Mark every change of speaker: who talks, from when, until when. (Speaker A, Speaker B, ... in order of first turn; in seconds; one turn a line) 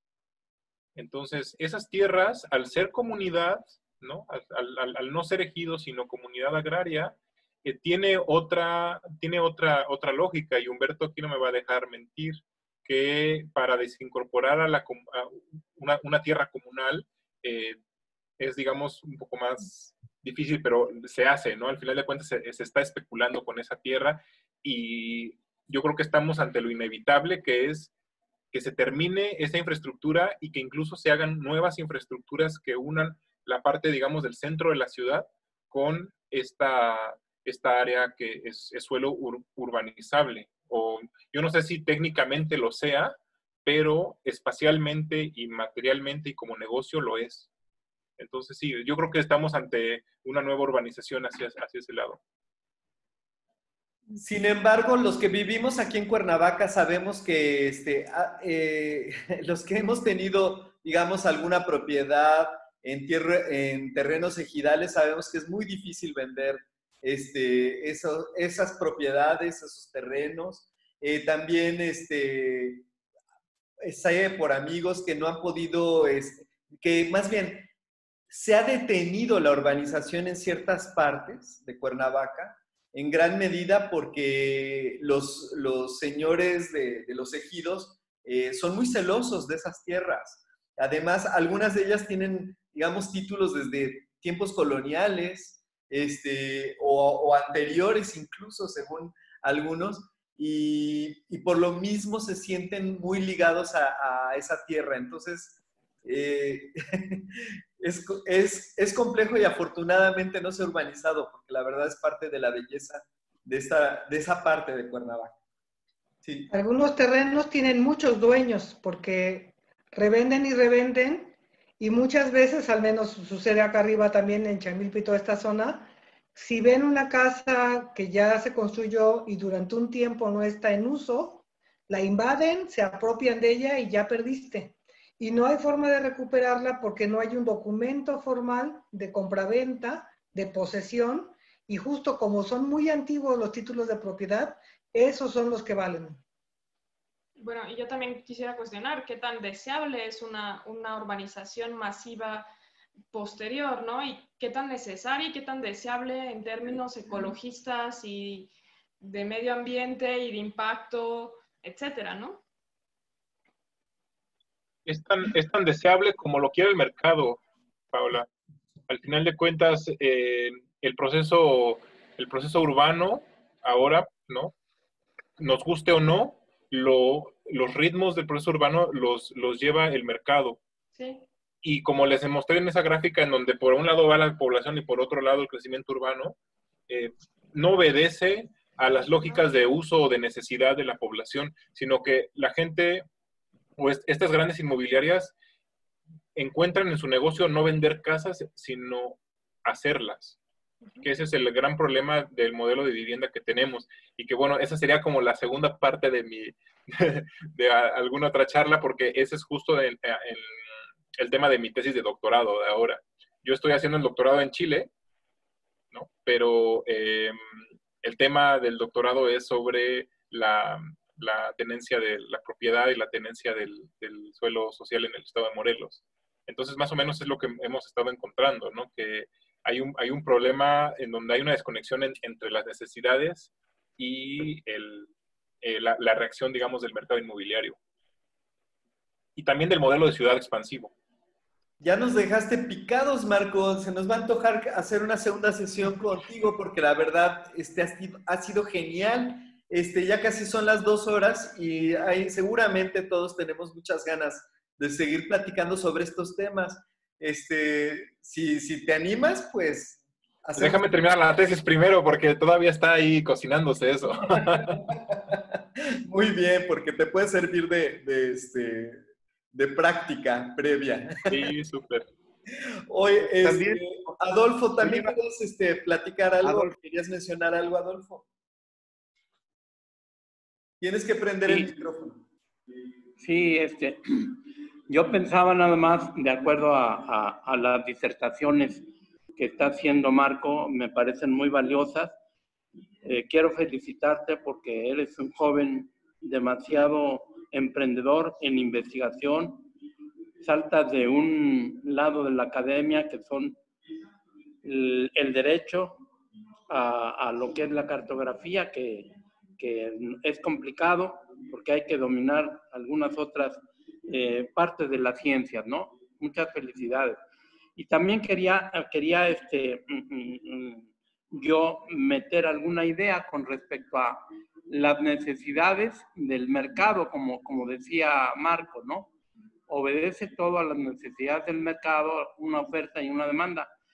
Speaker A: 0.9-17.8
Speaker A: 18.4-27.9
Speaker A: 28.5-47.5
Speaker A: 48.2-52.2
Speaker B: 54.1-72.8
Speaker B: 73.8-77.7
Speaker B: 78.3-107.3
Speaker B: 107.8-115.3
Speaker B: 116.2-116.5
Speaker C: 116.5-146.2
Speaker D: 147.4-152.5
Speaker D: 153.1-162.4
Speaker A: 164.8-168.3
Speaker A: 168.9-174.5
Speaker A: 175.4-180.6
Speaker D: 180.9-181.2
Speaker A: 181.6-186.4
Speaker A: 186.9-193.0
Speaker A: 193.8-195.3
Speaker A: 196.3-200.4
Speaker A: 201.0-210.6
Speaker A: 211.2-214.9
Speaker A: 215.9-235.1
Speaker A: 235.6-237.8
Speaker A: 239.3-240.9
Speaker B: 241.8-260.8
Speaker A: 260.6-264.8
Speaker B: 264.7-269.0
Speaker B: 269.5-271.4
Speaker A: 271.3-272.1
Speaker B: 272.9-278.2
Speaker A: 273.3-274.1
Speaker A: 274.8-275.1
Speaker A: 276.4-276.7
Speaker B: 280.8-282.2
Speaker E: 281.4-281.7
Speaker E: 283.2-284.4
Speaker E: 284.9-292.1
Speaker E: 293.0-299.7
Speaker E: 300.4-303.6
Speaker E: 304.6-306.0
Speaker E: 306.7-317.2
Speaker E: 317.8-329.1
Speaker E: 329.7-333.7